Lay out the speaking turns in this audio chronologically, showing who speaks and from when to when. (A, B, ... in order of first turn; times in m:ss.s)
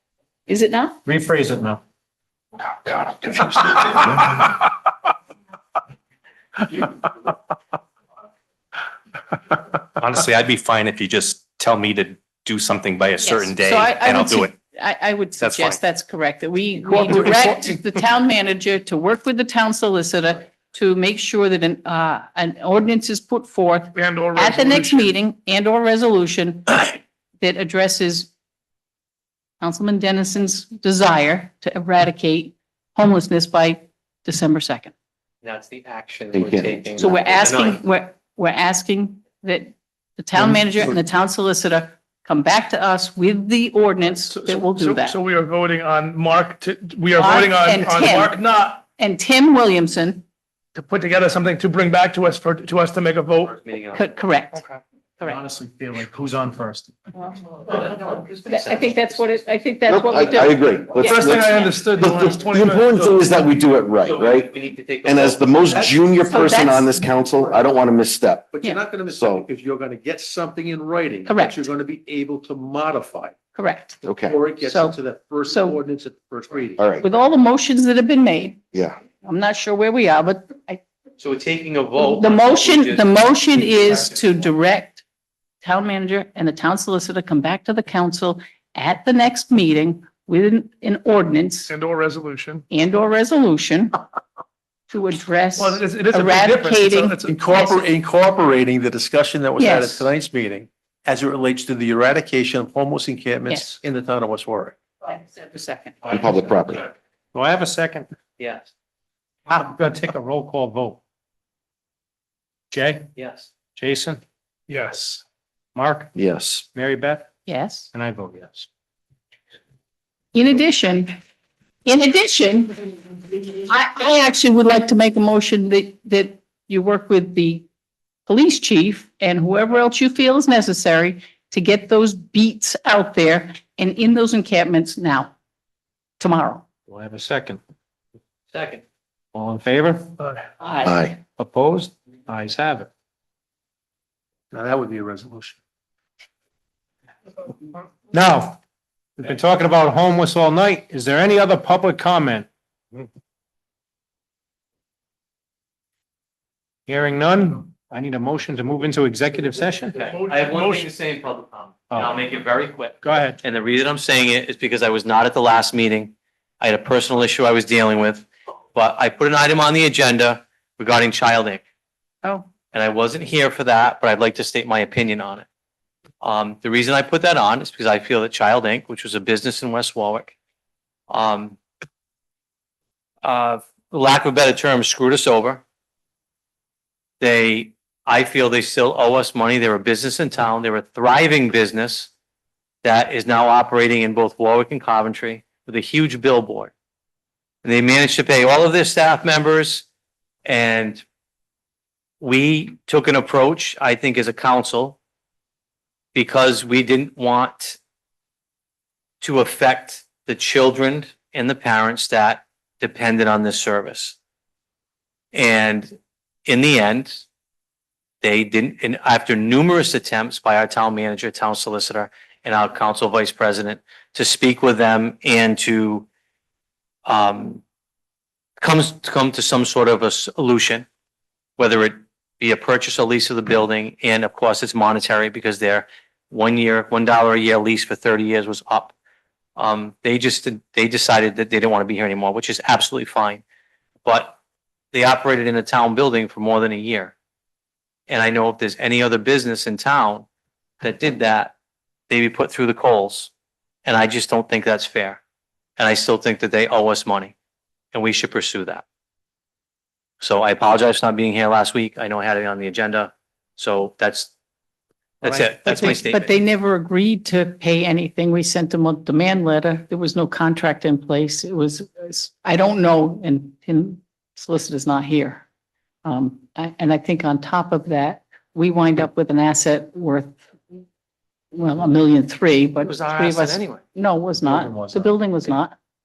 0:00.5-0:01.0 A
0:01.0-0:01.8 B
0:02.7-0:04.5 C
0:10.1-0:14.5 D
0:13.2-0:28.3 A
0:15.4-0:15.8 D
0:23.9-0:25.2 E
0:29.6-0:34.9 A
0:35.4-0:37.8 F
0:36.3-0:37.0 C
0:37.0-0:45.2 A
0:44.3-0:48.8 E
0:47.2-0:50.2 A
0:50.8-0:53.6 E
0:53.4-0:54.0 F
0:53.9-0:54.6 A
0:54.6-0:54.8 F
0:55.2-0:56.9 B
0:57.8-0:58.9 F
0:58.5-1:01.7 A
0:59.9-1:04.5 C
1:01.0-1:03.4 E
1:04.0-1:05.8 F
1:05.0-1:08.5 C
1:05.6-1:06.8 G
1:06.3-1:07.1 A
1:08.5-1:13.4 G
1:09.1-1:09.5 C
1:11.3-1:11.7 A
1:13.6-1:14.0 A
1:14.0-1:14.4 C
1:14.2-1:16.9 G
1:14.6-1:15.0 A
1:15.5-1:15.8 A
1:16.8-1:17.0 C
1:17.0-1:18.6 A
1:19.2-1:20.8 A
1:21.2-1:24.5 F
1:22.0-1:25.0 A
1:25.6-1:31.7 A
1:31.7-1:32.6 E
1:32.7-1:34.0 A
1:34.9-1:37.9 A
1:35.6-1:37.4 E
1:37.2-1:44.8 G
1:39.6-1:40.1 A
1:43.5-1:43.8 A
1:45.0-1:46.0 A
1:46.1-1:46.8 C
1:47.3-1:48.1 B
1:48.4-1:48.7 F
1:49.5-1:51.0 B
1:52.7-1:53.1 B
1:53.2-1:53.5 F
1:53.8-1:54.2 B
1:54.7-1:55.2 E
1:55.8-1:56.1 B
1:56.2-1:56.6 C
1:56.7-1:57.3 B
1:57.5-1:57.9 A
1:57.9-1:58.7 B
2:00.3-2:01.1 A
2:01.8-2:07.7 A
2:08.3-2:15.3 A
2:16.2-2:16.6 A
2:16.9-2:17.6 B
2:18.5-2:18.8 F
2:19.3-2:20.1 B
2:20.6-2:20.9 A
2:20.8-2:21.2 C
2:21.3-2:22.9 B
2:24.5-2:25.6 G
2:28.1-2:28.6 B
2:29.2-2:33.0 B
2:36.9-2:40.0 B
2:39.9-2:51.6 F
2:40.0-2:40.9 E
2:41.9-2:42.2 B
2:43.0-2:43.4 B
2:52.7-2:55.5 F
2:56.2-3:00.3 F
3:01.1-3:01.6 F
3:03.2-3:05.6 F
3:07.2-3:12.1 F
3:12.8-3:16.7 F
3:17.6-3:19.9 F
3:20.5-3:21.0 F
3:22.2-3:25.0 F
3:26.1-3:27.8 F
3:29.2-3:34.2 F
3:35.3-3:35.9 F
3:36.5-3:37.2 F
3:38.2-3:46.1 F
3:47.1-3:47.6 F
3:48.6-3:50.9 F
3:51.6-3:59.0 F
3:59.6-4:03.4 F
4:04.0-4:04.4 F
4:04.9-4:07.2 F
4:08.1-4:10.3 F
4:10.8-4:11.5 F
4:12.1-4:13.3 F
4:13.8-4:15.2 F
4:15.8-4:17.3 F
4:17.9-4:18.8 F
4:20.2-4:24.3 F
4:25.2-4:26.3 F
4:25.2-4:26.0 B
4:25.6-4:35.4 A
4:36.0-4:40.4 A
4:41.5-4:45.8 A
4:42.8-4:43.8 F
4:44.4-4:45.1 B